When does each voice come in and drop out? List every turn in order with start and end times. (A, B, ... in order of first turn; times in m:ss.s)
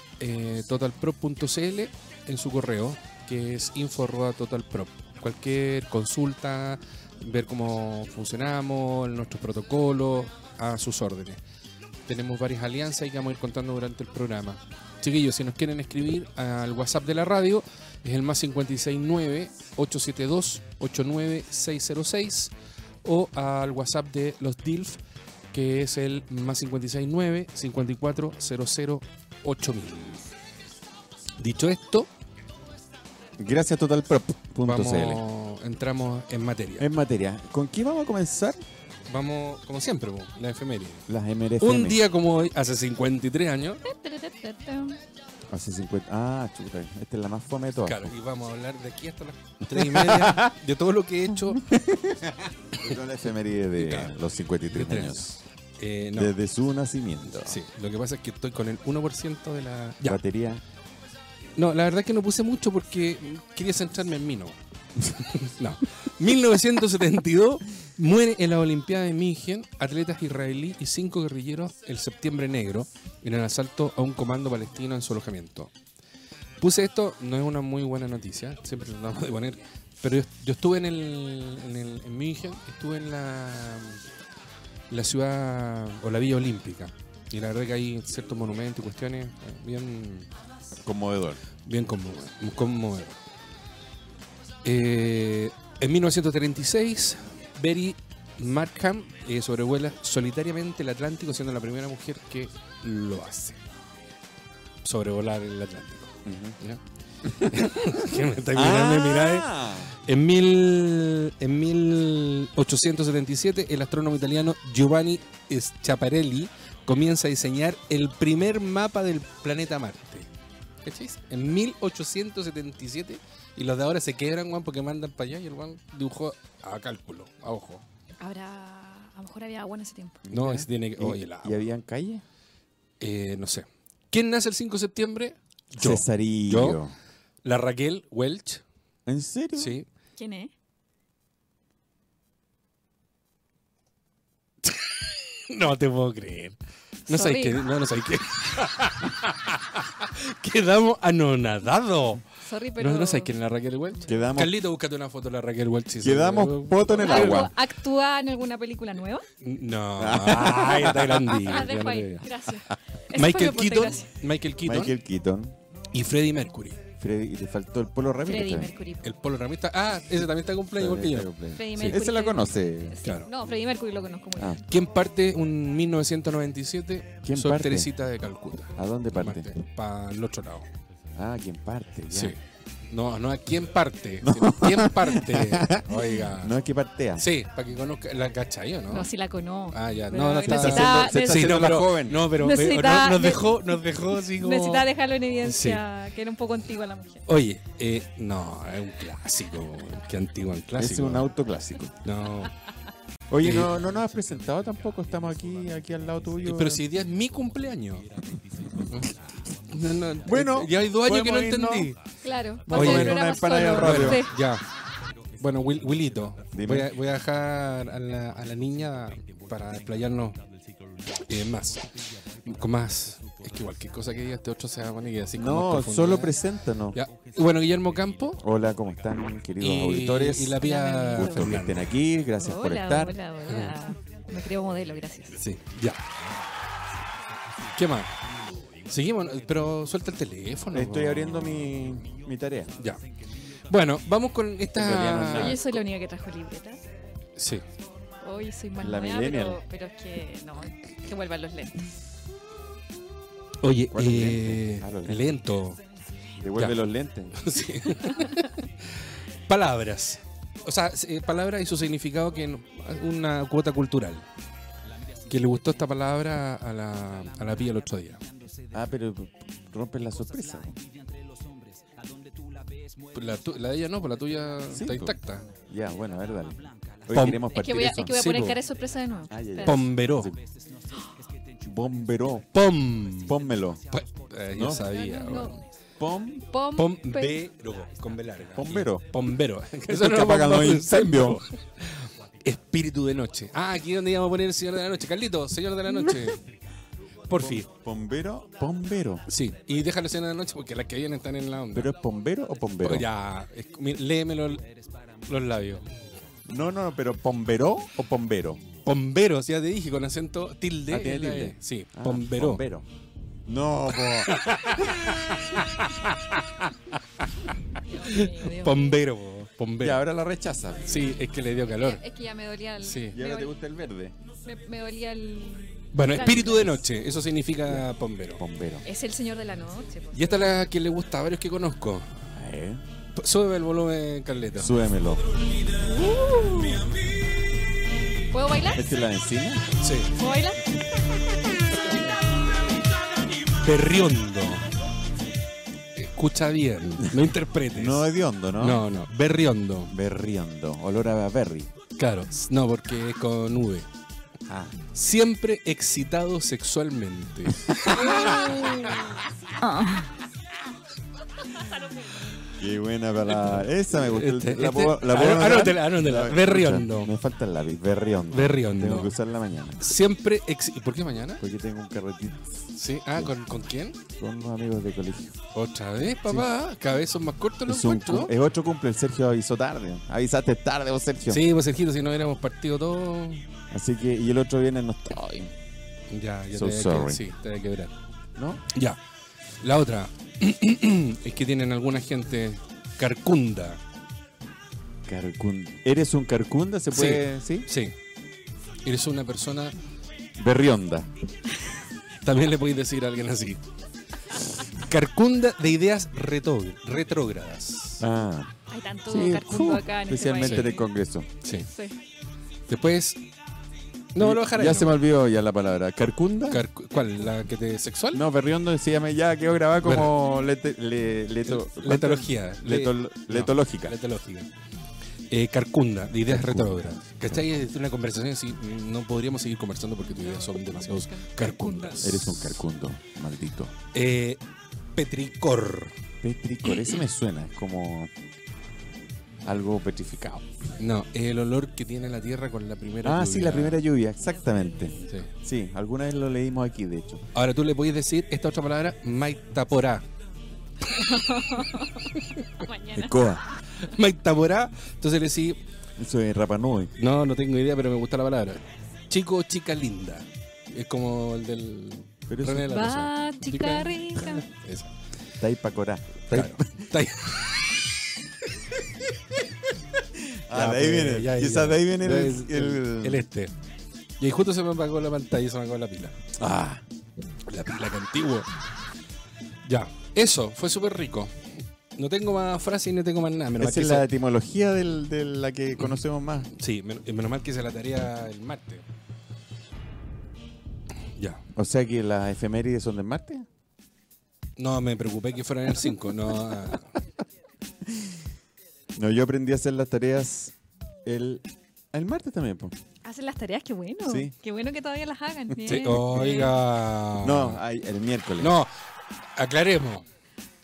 0:00.2-0:11.4 A
0:12.1-0:22.5 A
0:23.0-0:25.0 A
0:25.5-0:30.2 A
0:31.4-0:32.1 A
0:33.4-0:35.2 B
0:34.6-0:36.9 A
0:36.8-0:38.6 B
0:39.1-0:41.1 A
0:41.1-0:42.0 B
0:41.6-0:43.8 A
0:43.8-0:45.0 C
0:45.5-0:48.1 B
0:47.8-0:51.6 A
0:49.7-0:50.5 B
0:51.6-0:55.3 B
0:53.8-0:54.1 A
0:54.7-0:56.3 A
0:56.1-0:57.6 B
0:57.4-1:00.2 A
1:00.0-1:00.6 B
1:01.6-1:15.7 A
1:16.6-1:24.0 A
1:24.9-1:30.3 A
1:30.8-1:31.4 B
1:31.6-1:33.2 A
1:34.6-1:43.6 A
1:44.8-2:00.3 A
1:46.2-1:46.5 B
1:47.2-1:49.9 B
2:00.8-2:07.8 A
2:08.2-2:10.2 C
2:10.2-2:12.2 B
2:10.3-2:11.7 A
2:13.0-2:16.8 A
2:15.8-2:16.9 B
2:17.4-2:18.6 A
2:19.0-2:19.8 B
2:19.6-2:19.9 A
2:20.2-2:20.5 C
2:24.6-2:26.6 A
2:27.1-2:32.2 A
2:27.1-2:27.6 C
2:32.4-2:33.3 C
2:32.8-2:37.5 A
2:34.1-2:34.6 B
2:36.0-2:37.5 B
2:37.0-2:39.2 C
2:39.4-2:42.3 A
2:40.0-2:41.5 B
2:41.4-2:44.1 C
2:43.1-2:44.9 A
2:44.6-2:45.6 B
2:45.9-2:46.8 A
2:47.0-2:48.7 B
2:48.2-2:49.1 C
2:49.0-2:52.0 A
2:50.7-2:53.0 B
2:51.5-2:54.6 C
2:53.0-2:53.3 A
2:54.4-2:54.6 B
2:54.7-3:00.7 A
2:57.2-2:57.9 B
2:58.8-2:59.5 B
3:01.1-3:02.4 B
3:02.1-3:06.6 A
3:04.2-3:07.3 B
3:07.2-3:09.1 A
3:08.9-3:11.6 C
3:09.7-3:14.9 A
3:10.4-3:12.3 B
3:12.4-3:13.7 C
3:14.4-3:17.2 C
3:15.4-3:15.8 A
3:17.3-3:21.3 A
3:20.8-3:22.0 B
3:22.0-3:22.5 A
3:23.3-3:26.8 B
3:23.4-3:23.8 A
3:26.4-3:28.2 A
3:28.7-3:32.0 A
3:30.1-3:31.9 B
3:32.2-3:34.3 C
3:32.6-3:34.2 B
3:32.7-3:34.6 A
3:35.4-3:40.4 A
3:36.5-3:36.9 B
3:41.2-3:46.4 A
3:45.4-3:47.0 B
3:46.9-3:48.4 A
3:48.4-3:50.6 B
3:49.6-3:52.0 A
3:50.6-3:51.5 C
3:51.1-3:53.2 B
3:52.4-3:55.4 C
3:53.5-3:53.8 A
3:55.4-3:56.0 A
3:57.7-3:58.1 A
3:58.8-4:01.6 A
4:00.7-4:02.7 B
4:03.7-4:05.6 A
4:04.7-4:05.7 B
4:05.3-4:06.8 C
4:07.4-4:07.6 A
4:08.2-4:11.9 C
4:08.8-4:09.6 B
4:13.6-4:15.8 A
4:13.9-4:15.2 B
4:16.4-4:17.4 B
4:16.5-4:24.2 A
4:25.2-4:28.2 A
4:28.7-4:30.8 B
4:33.1-4:35.5 A
4:34.7-4:38.2 B
4:37.1-4:37.5 A
4:37.5-4:39.8 C
4:38.0-4:38.6 A
4:39.3-4:40.4 B
4:39.6-4:40.3 A
4:41.6-4:42.5 B
4:42.5-4:45.6 A
4:43.2-4:43.8 B
4:44.5-4:44.9 B
4:44.8-4:45.6 C
4:46.0-4:46.5 B
4:46.5-4:47.4 C
4:46.8-4:56.4 A
4:48.5-4:49.1 B
4:49.9-4:51.4 B
4:57.3-4:57.7 A
4:57.4-4:59.2 B
4:59.3-5:01.9 A
5:01.7-5:03.1 B
5:02.8-5:05.9 A
5:06.4-5:08.6 B
5:08.8-5:12.6 A
5:10.9-5:12.9 B
5:13.4-5:14.4 B
5:14.1-5:20.0 A
5:17.9-5:18.9 C
5:19.8-5:21.1 B
5:20.9-5:22.0 A
5:21.7-5:23.5 C
5:22.8-5:23.2 A
5:23.1-5:24.1 B
5:24.4-5:26.8 C
5:25.9-5:28.4 A
5:28.4-5:28.9 B
5:28.8-5:30.4 C
5:30.1-5:32.3 A
5:32.3-5:32.8 B
5:33.1-5:34.8 A
5:34.6-5:35.2 B
5:35.8-5:36.9 C
5:38.3-5:38.9 C
5:38.7-5:39.7 B
5:39.8-5:40.2 A
5:40.2-5:40.7 C
5:43.4-5:44.7 A
5:45.9-5:49.9 A
5:47.7-5:48.9 B
5:49.9-5:51.7 B
5:52.0-5:53.9 A
5:54.5-5:54.8 B
5:54.9-5:59.1 A
5:58.0-5:59.0 C
5:59.6-6:00.1 C
6:02.5-6:09.9 B
6:03.3-6:07.1 A
6:08.3-6:09.1 A
6:09.8-6:11.4 A
6:11.4-6:13.4 B
6:12.7-6:14.0 A
6:14.0-6:15.4 B
6:15.5-6:18.3 A
6:17.6-6:21.4 B
6:21.3-6:23.4 A
6:23.7-6:25.5 B
6:26.1-6:27.9 A
6:26.5-6:27.2 B
6:28.4-6:28.6 B
6:28.7-6:29.0 A
6:29.6-6:33.8 A
6:35.0-6:37.7 B
6:36.9-6:37.9 A
6:38.8-6:39.8 A
6:40.4-6:41.1 B
6:42.2-6:43.6 A
6:44.6-6:48.0 A
6:48.0-6:48.5 B
6:48.7-6:50.9 C
6:49.1-6:51.3 B
6:50.4-6:50.7 A
6:51.4-6:51.7 A
6:51.7-6:52.0 C
6:52.7-6:53.2 A
6:54.1-6:55.0 A
6:54.2-6:56.6 B
6:56.5-6:58.2 A
6:58.1-7:04.0 B
6:59.8-7:00.1 A
7:01.4-7:04.5 A
7:05.3-7:12.6 A
7:06.3-7:07.4 B
7:10.1-7:12.2 C
7:12.0-7:13.7 B
7:13.9-7:14.4 A
7:14.9-7:15.9 A
7:16.2-7:18.1 B
7:19.4-7:20.5 B
7:20.8-7:23.8 A
7:23.0-7:27.2 B
7:25.0-7:25.3 A
7:27.3-7:30.1 A
7:30.9-7:33.2 C
7:31.8-7:32.5 A
7:32.9-7:33.4 B
7:33.8-7:35.6 A
7:36.0-7:36.9 B
7:37.0-7:44.9 A
7:42.3-7:42.8 B
7:42.6-7:44.4 C
7:45.4-7:46.9 B
7:46.3-7:47.9 A
7:48.9-7:53.2 B
7:50.5-7:53.5 A
7:54.2-7:56.2 A
7:56.4-7:56.8 B
7:57.5-7:58.5 A
7:59.6-8:04.1 A
8:03.6-8:06.5 B
8:06.5-8:08.8 A
8:11.2-8:11.4 A
8:11.5-8:13.5 B
8:14.6-8:16.9 A
8:17.9-8:18.1 B
8:18.9-8:22.7 B
8:23.0-8:26.6 C
8:24.0-8:24.3 B
8:25.6-8:27.6 A
8:27.2-8:28.6 B
8:28.4-8:28.7 A
8:29.4-8:30.0 A